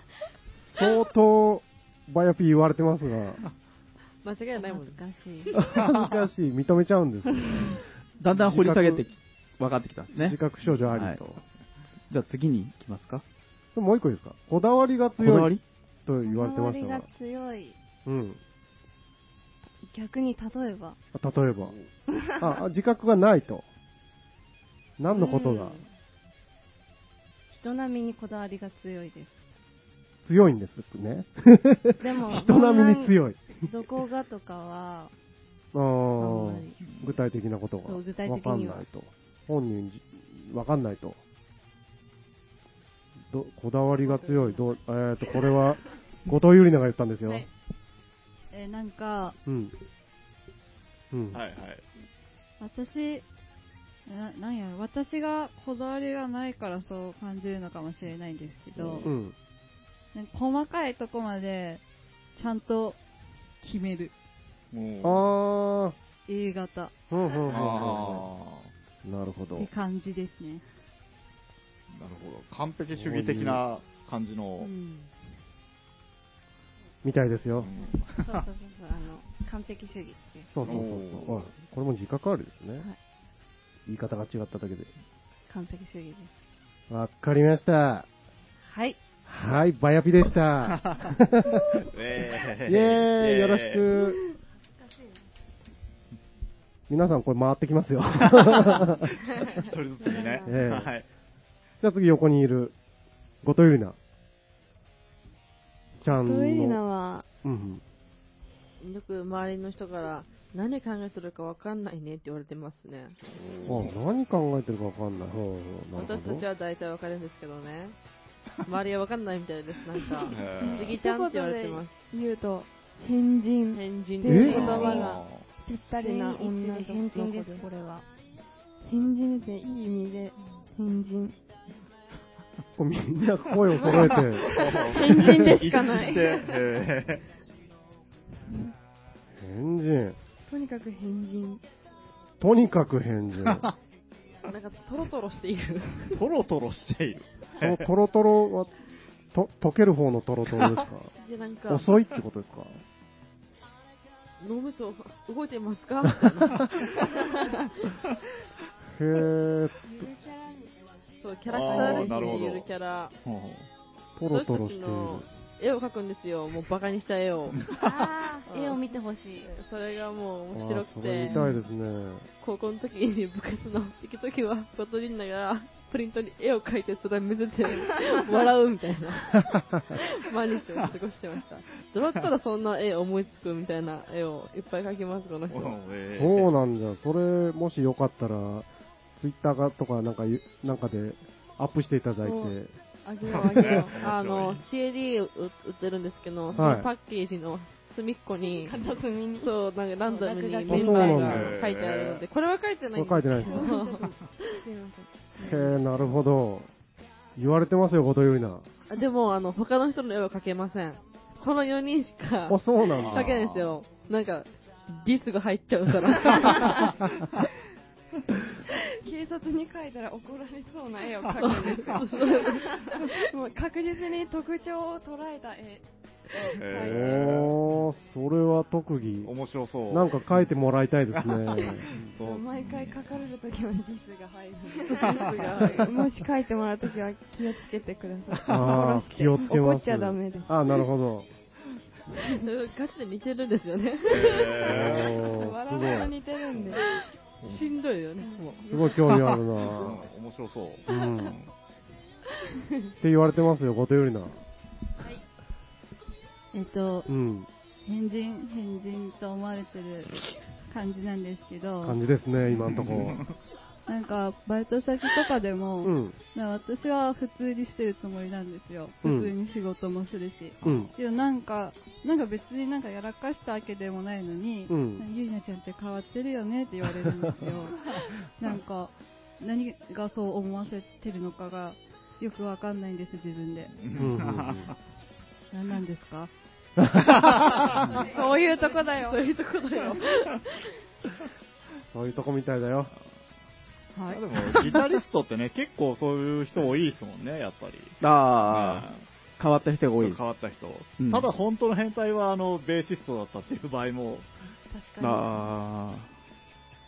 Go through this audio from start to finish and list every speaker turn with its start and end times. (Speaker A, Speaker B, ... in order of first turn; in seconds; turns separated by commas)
Speaker A: 0.6-3.4, Speaker B: 4.2-5.0, Speaker C: 4.5-5.5, Speaker A: 5.5-7.8, Speaker D: 5.8-6.1, Speaker E: 8.2-10.4, Speaker A: 8.3-9.1, Speaker A: 10.2-11.4, Speaker E: 12.1-13.2, Speaker A: 13.8-17.1, Speaker E: 15.2-15.6, Speaker C: 16.2-17.8, Speaker A: 18.1-18.4, Speaker C: 19.9-21.0, Speaker A: 21.1-21.8, Speaker A: 22.4-23.7, Speaker A: 25.0-25.8, Speaker B: 25.1-25.9, Speaker C: 27.5-29.4, Speaker A: 30.2-33.5, Speaker C: 32.0-35.1, Speaker A: 35.7-41.2, Speaker C: 36.2-36.7, Speaker D: 36.8-37.2, Speaker C: 37.9-38.9, Speaker A: 43.3-47.5, Speaker C: 44.1-44.5, Speaker F: 48.5-49.4, Speaker A: 49.5-49.7, Speaker A: 51.1-51.4, Speaker D: 51.3-51.8, Speaker F: 52.6-53.2, Speaker F: 54.1-59.1, Speaker A: 58.8-59.4, Speaker F: 60.1-61.8, Speaker F: 62.4-63.0, Speaker F: 63.6-64.1, Speaker D: 64.7-65.3, Speaker A: 65.0-66.0, Speaker F: 66.3-66.9, Speaker A: 67.1-68.3, Speaker D: 67.5-68.7, Speaker A: 69.0-69.7, Speaker F: 69.6-70.7, Speaker D: 71.9-74.7, Speaker A: 72.9-73.6, Speaker A: 77.0-77.7, Speaker D: 77.6-78.5, Speaker C: 77.8-80.5, Speaker A: 80.5-82.9, Speaker D: 80.7-81.5, Speaker A: 83.9-84.9, Speaker C: 85.5-86.3, Speaker A: 86.9-88.1, Speaker C: 88.7-89.0, Speaker A: 89.3-91.8, Speaker D: 90.7-91.1, Speaker D: 91.9-93.9, Speaker A: 92.7-94.2, Speaker A: 96.9-99.1, Speaker D: 98.2-101.1, Speaker B: 100.0-100.5, Speaker A: 100.5-100.9, Speaker A: 101.8-102.8, Speaker A: 103.4-104.0, Speaker A: 106.0-106.8, Speaker G: 106.2-107.3, Speaker A: 107.4-107.8, Speaker B: 108.8-113.2, Speaker D: 113.3-113.9, Speaker A: 113.7-116.5, Speaker B: 116.0-118.0, Speaker B: 118.7-121.9, Speaker G: 120.2-127.6, Speaker D: 120.3-121.0, Speaker B: 123.7-125.2, Speaker A: 124.2-124.7, Speaker C: 124.4-125.0, Speaker D: 124.5-125.5, Speaker C: 126.0-128.0, Speaker G: 128.8-131.4, Speaker A: 132.8-134.5, Speaker D: 133.8-137.2, Speaker G: 134.5-136.6, Speaker A: 139.4-140.2, Speaker G: 140.5-141.6, Speaker A: 142.4-143.7, Speaker B: 144.5-146.2, Speaker D: 146.1-147.9, Speaker A: 147.6-148.7, Speaker A: 149.3-151.1, Speaker B: 151.2-151.9, Speaker A: 151.7-152.8, Speaker B: 154.4-157.7, Speaker A: 158.9-159.8, Speaker G: 159.9-160.7, Speaker B: 161.2-163.1, Speaker D: 161.5-162.7, Speaker G: 161.7-162.5, Speaker D: 163.2-163.7, Speaker A: 164.2-165.3, Speaker B: 164.3-167.7, Speaker C: 167.8-169.5, Speaker B: 168.5-168.8, Speaker B: 169.4-171.4, Speaker A: 170.5-172.3, Speaker B: 172.4-185.8, Speaker D: 185.5-186.5, Speaker A: 186.2-192.7, Speaker G: 192.2-194.0, Speaker D: 193.3-194.6, Speaker B: 193.9-198.8, Speaker D: 196.5-196.8, Speaker A: 196.5-196.9, Speaker G: 198.4-199.5, Speaker B: 199.4-204.1, Speaker C: 200.1-201.4, Speaker A: 200.7-201.6, Speaker D: 201.2-202.2, Speaker A: 203.0-203.7, Speaker G: 203.4-205.8, Speaker A: 205.4-206.7, Speaker A: 207.4-208.7, Speaker B: 208.9-216.9, Speaker A: 212.5-213.3, Speaker D: 213.0-213.8, Speaker G: 219.0-227.0, Speaker B: 221.4-223.1, Speaker D: 226.6-227.6, Speaker A: 226.8-229.3, Speaker D: 229.2-230.2, Speaker A: 229.9-232.1, Speaker D: 231.1-233.0, Speaker G: 232.2-240.6, Speaker B: 234.9-236.0, Speaker D: 238.3-238.8, Speaker A: 238.5-241.3, Speaker B: 242.4-245.0, Speaker D: 244.1-245.2, Speaker A: 244.7-246.1, Speaker G: 245.1-247.0, Speaker B: 246.8-249.2, Speaker A: 248.7-250.1, Speaker D: 249.1-251.2, Speaker A: 250.9-251.4, Speaker A: 253.0-254.4, Speaker F: 256.5-257.1, Speaker A: 257.1-257.5, Speaker F: 257.9-262.0, Speaker A: 261.8-263.2, Speaker D: 262.5-263.4, Speaker F: 263.9-283.8, Speaker A: 265.8-266.2, Speaker A: 269.0-269.3, Speaker A: 270.6-270.9, Speaker A: 274.7-275.0, Speaker D: 283.8-284.8, Speaker A: 283.9-284.7, Speaker F: 285.5-286.3, Speaker A: 286.8-287.7, Speaker D: 287.2-287.8, Speaker B: 288.0-290.7, Speaker C: 288.1-289.2, Speaker G: 288.2-288.9, Speaker A: 291.9-292.9, Speaker F: 293.9-294.6, Speaker D: 294.1-299.0, Speaker E: 298.0-298.9, Speaker E: 299.4-300.2, Speaker D: 300.0-304.3, Speaker E: 301.0-301.3, Speaker C: 304.7-305.2, Speaker E: 305.0-306.1